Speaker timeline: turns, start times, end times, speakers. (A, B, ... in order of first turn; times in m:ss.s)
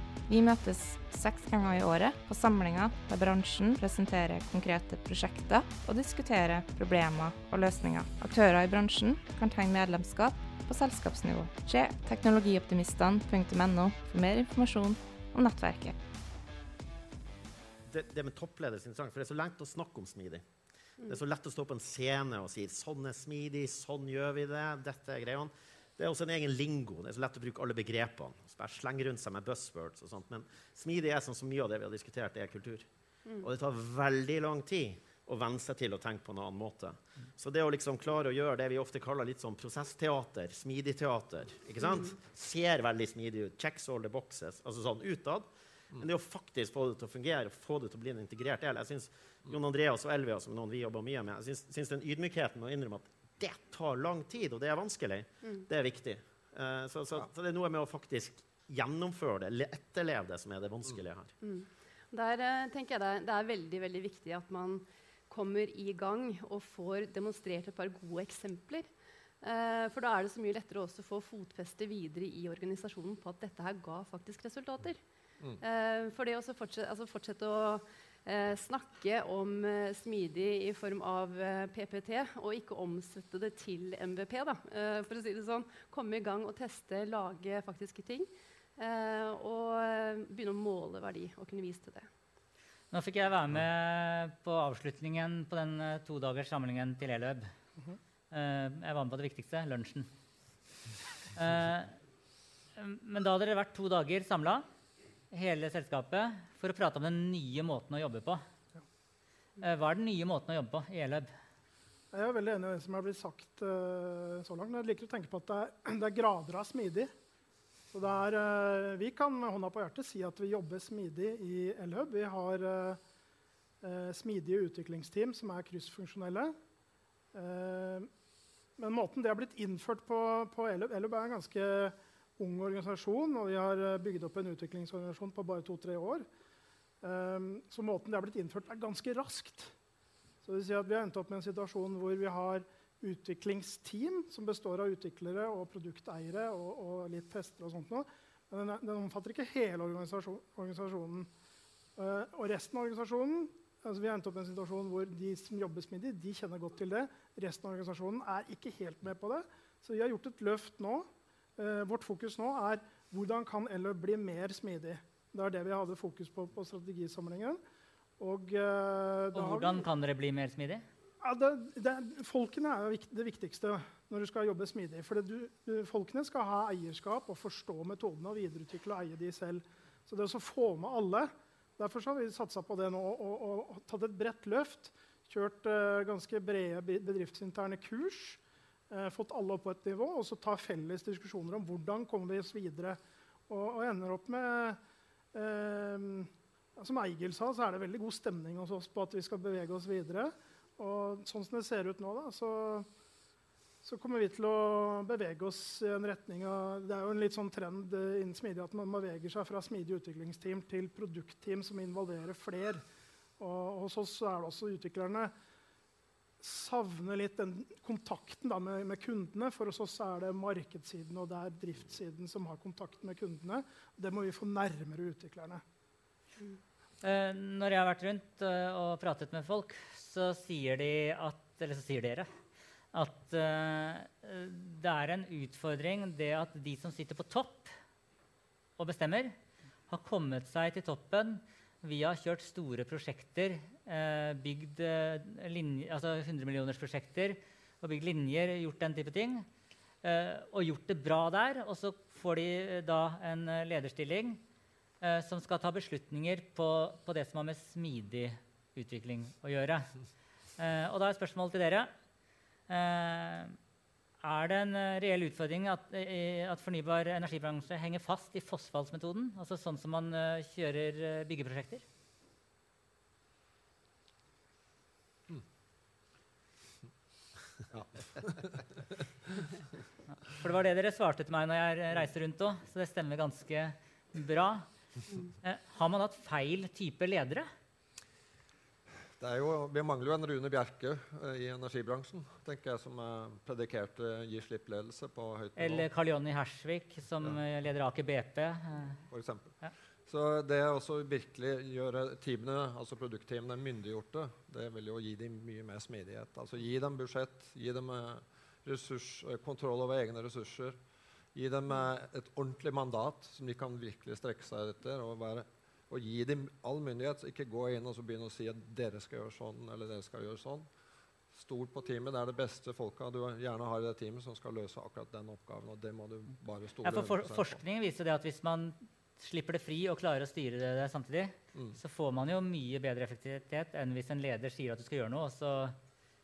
0:00.3-0:16.0 A
0:17.9-0:20.4 B
0:21.0-0:32.9 B
0:33.4-1:01.3 B
0:41.8-0:42.1 C
1:01.4-1:08.9 C
1:09.4-1:15.0 C
1:15.6-1:32.1 C
1:32.9-1:37.5 D
1:38.3-1:40.1 D
1:41.3-1:41.9 D
1:42.8-1:44.6 D
1:45.3-1:48.4 D
1:49.6-1:51.3 D
1:52.1-1:57.1 E
1:57.9-2:03.0 E
2:03.8-2:06.5 E
2:07.3-2:08.1 E
2:08.8-2:16.2 E
2:17.0-2:19.7 E
2:20.4-2:31.3 E
2:32.0-2:47.6 E
2:48.2-2:49.9 E
2:49.3-2:50.8 D
2:51.2-3:14.8 E
3:15.3-3:22.9 E
3:23.8-3:32.8 E
3:33.4-3:35.3 E
3:36.4-3:45.6 E
3:47.0-3:52.3 D
3:52.9-3:57.7 D
3:58.8-3:59.3 D
3:59.9-4:09.5 D
4:10.0-4:14.4 D
4:15.0-4:19.9 D
4:20.6-4:21.9 D
4:22.7-4:23.6 D
4:24.2-4:31.8 D
4:37.7-4:38.6 F
4:40.2-4:44.7 D
4:45.4-4:47.5 D
4:49.2-4:55.9 F
4:55.6-4:59.0 D
4:59.1-4:59.5 F
5:00.0-5:10.8 F
5:11.3-5:20.7 F
5:21.3-5:27.6 F
5:26.8-5:35.7 D